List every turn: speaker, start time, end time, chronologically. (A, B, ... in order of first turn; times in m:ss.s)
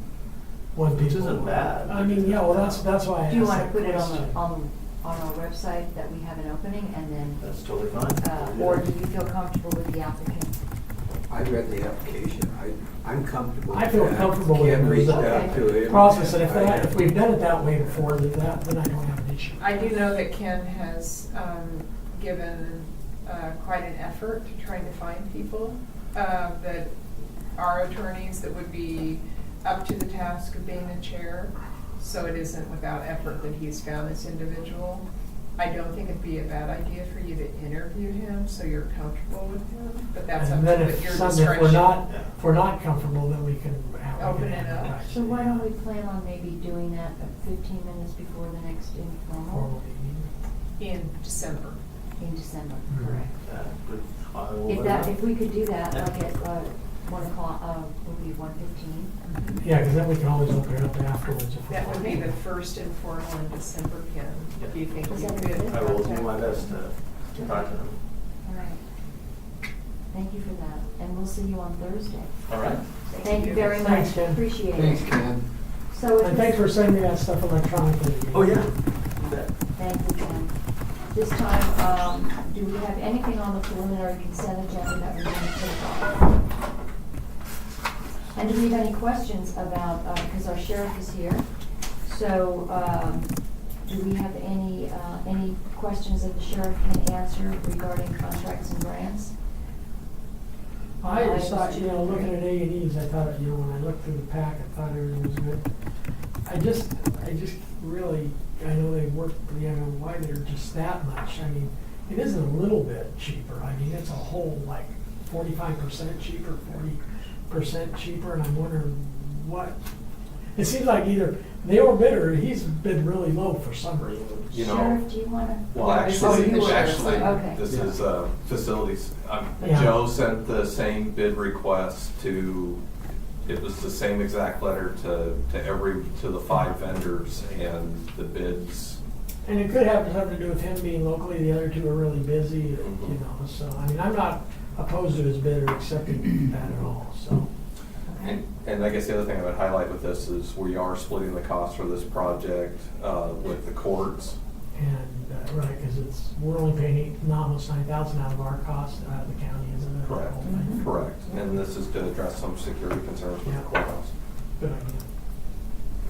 0:00.7-0:04.4 A
0:00.9-0:02.9 B
0:03.3-0:07.4 C
0:07.4-0:08.9 B
0:08.2-0:10.5 C
0:11.3-0:17.2 D
0:13.7-0:19.6 A
0:15.0-0:16.0 C
0:19.6-0:26.9 E
0:27.6-0:35.1 E
0:35.6-0:42.1 E
0:40.4-0:45.7 A
0:42.0-0:42.4 B
0:44.2-0:45.0 E
0:45.0-0:49.7 C
0:49.5-0:50.3 A
0:50.8-0:51.8 E
0:52.2-0:53.3 C
0:52.9-0:53.3 A
0:53.4-0:55.2 B
0:54.6-0:59.2 C
0:55.9-0:56.2 B
0:59.2-0:59.6 E
0:59.6-1:02.4 A
1:01.7-1:06.5 E
1:05.1-1:06.8 C
1:05.6-1:08.0 B
1:07.3-1:07.7 C
1:08.4-1:08.8 C
1:10.1-1:12.6 C
1:12.5-1:12.8 B
1:13.1-1:13.8 E
1:13.2-1:15.2 C
1:13.8-1:14.5 A
1:14.7-1:15.5 D
1:15.9-1:16.6 C
1:16.2-1:18.7 A
1:18.3-1:19.5 B
1:19.2-1:26.3 C
1:28.3-1:31.5 C
1:32.0-1:39.3 C
1:41.0-1:45.7 A
1:41.1-1:42.3 C
1:46.4-1:59.8 A
2:00.5-2:04.4 A
2:04.5-2:05.0 F
2:04.5-2:05.9 C
2:05.7-2:12.8 F
2:05.8-2:07.4 E
2:06.6-2:07.6 C
2:07.6-2:08.0 D
2:09.6-2:10.0 A
2:13.4-2:19.0 F
2:19.4-2:27.5 A
2:22.8-2:23.2 F
2:28.0-2:28.4 C
2:28.2-2:34.4 F
2:34.7-2:40.9 A
2:40.0-2:44.1 F
2:40.4-2:41.2 C
2:44.6-2:45.0 A